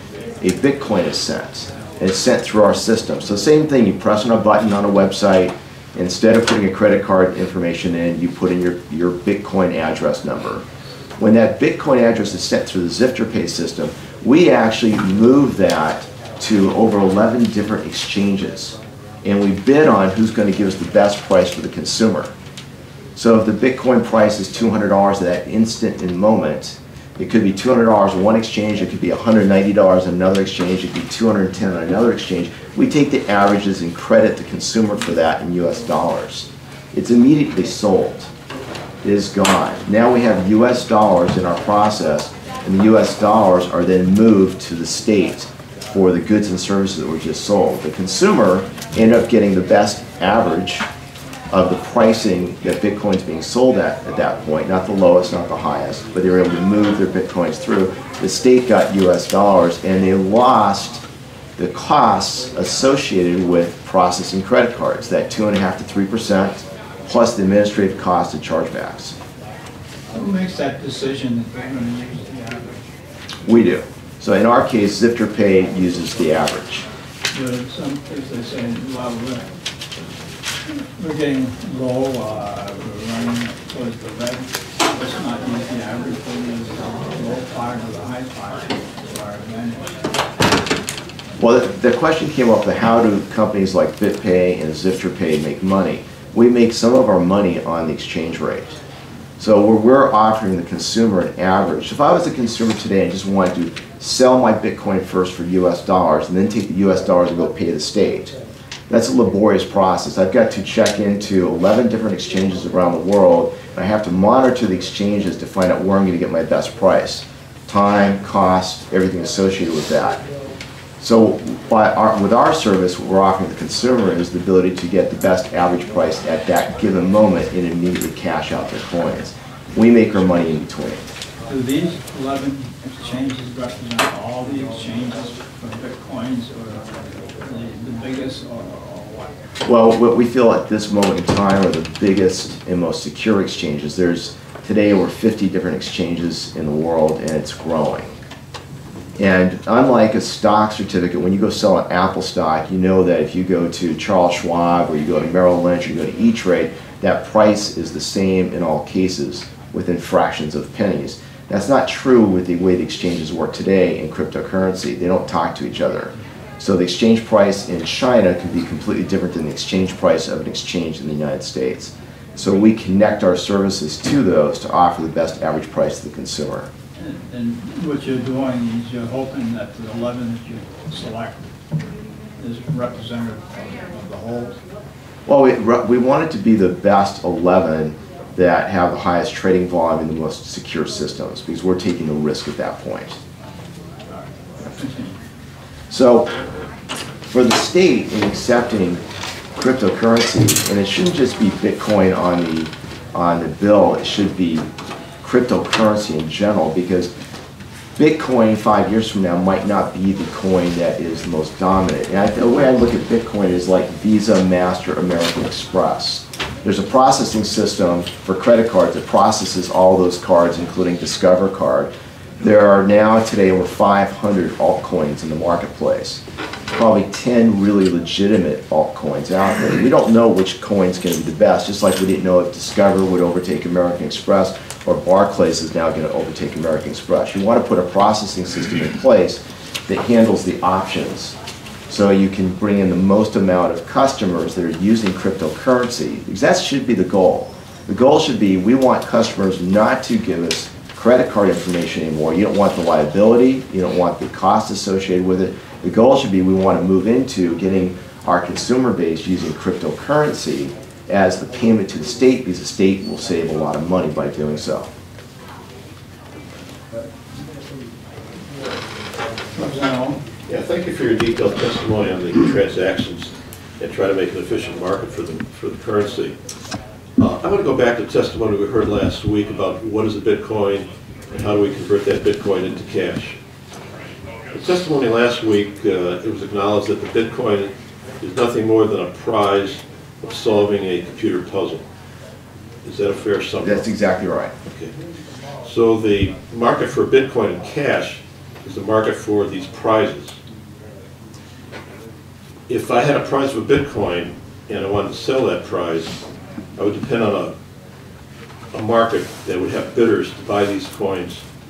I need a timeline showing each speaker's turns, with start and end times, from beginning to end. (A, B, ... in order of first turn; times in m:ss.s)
0:00.4-0:10.6 A
0:11.2-0:22.3 A
0:23.1-0:38.3 A
0:39.0-0:50.9 A
0:51.5-1:01.0 A
1:01.6-1:09.2 A
1:10.1-1:12.8 B
1:13.4-1:16.8 A
1:17.3-1:19.5 B
1:21.0-1:30.0 B
1:31.4-1:38.8 A
1:39.4-1:48.4 A
1:48.9-2:00.2 A
2:01.0-2:11.1 A
2:11.5-2:19.2 B
2:19.6-2:28.2 A
2:29.2-2:56.7 A
2:57.0-3:01.5 B
3:02.4-3:04.6 B
3:05.2-3:13.2 A
3:14.1-3:15.2 B
3:15.9-3:16.3 A
3:17.3-3:19.0 A
3:19.5-3:24.7 A
3:25.2-3:27.1 A
3:28.0-3:46.2 A
3:46.7-4:01.4 A
4:01.9-4:24.9 A
4:29.5-4:30.2 B
4:30.5-4:36.3 C
4:37.2-4:43.4 C
4:44.5-4:51.8 C
4:52.8-4:53.9 C
4:53.6-4:54.5 A
4:55.6-5:00.4 C
5:02.7-5:06.1 C
5:06.8-5:07.5 C
5:08.7-5:11.4 C